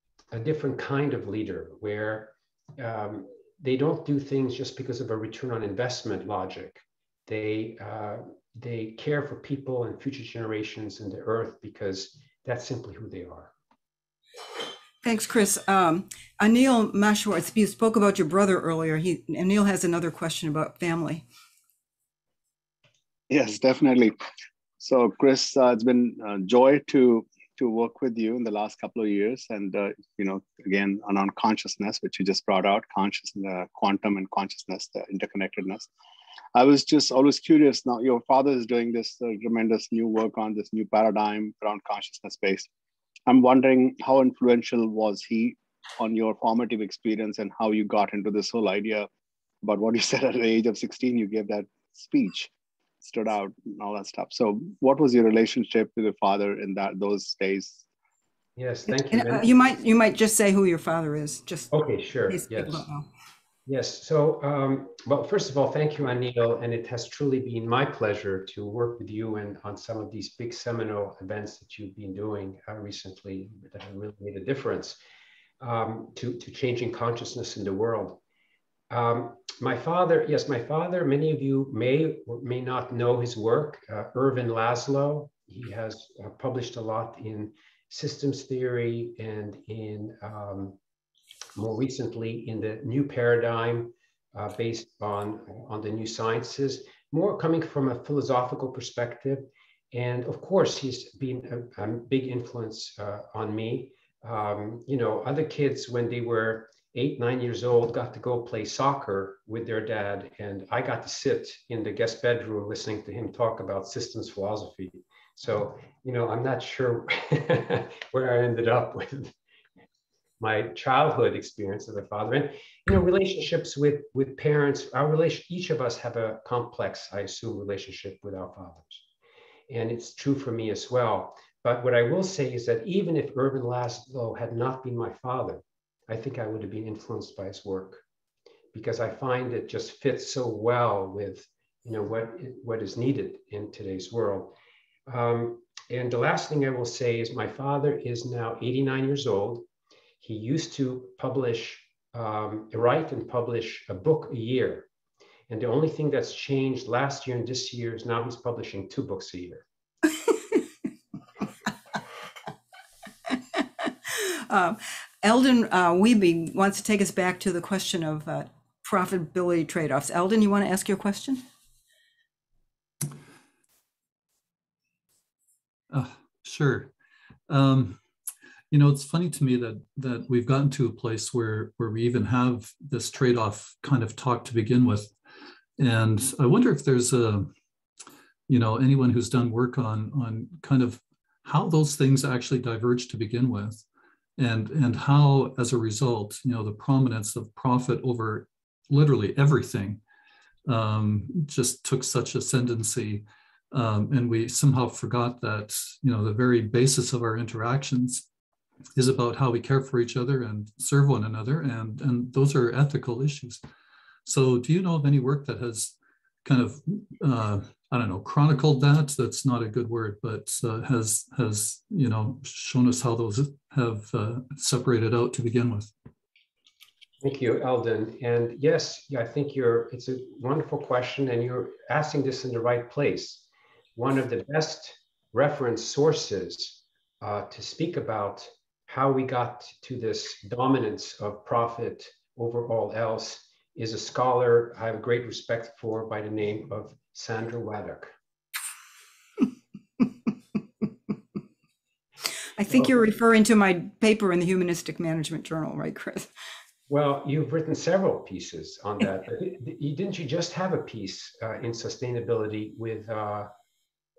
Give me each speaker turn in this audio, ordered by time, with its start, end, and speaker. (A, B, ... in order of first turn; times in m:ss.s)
0:00.3-0:13.5 A
0:15.0-0:21.2 B
0:23.3-0:24.1 C
0:24.8-0:35.9 C
0:36.5-0:42.7 C
0:43.3-0:49.1 C
0:49.6-0:52.5 C
0:53.0-0:57.8 C
0:58.6-0:59.5 A
0:59.1-1:01.7 B
1:01.7-1:02.8 A
1:02.3-1:03.1 B
1:03.6-1:15.0 A
1:15.6-1:18.2 A
1:18.9-1:30.8 A
1:31.6-1:59.3 A
2:00.4-2:09.0 A
2:09.7-2:18.0 A
2:18.7-2:24.5 A
2:25.1-2:29.7 A
2:30.2-2:34.9 A
2:35.5-2:39.6 A
2:43.3-2:51.4 B
2:55.9-2:56.9 D
2:57.5-2:58.0 D
2:58.7-3:05.2 D
3:05.8-3:07.5 D
3:08.5-3:13.8 D
3:14.4-3:20.0 D
3:20.6-3:28.2 D
3:29.0-3:33.6 D
3:34.2-3:45.9 D
3:47.2-4:08.1 A
4:12.6-4:16.3 B
4:16.9-4:23.5 A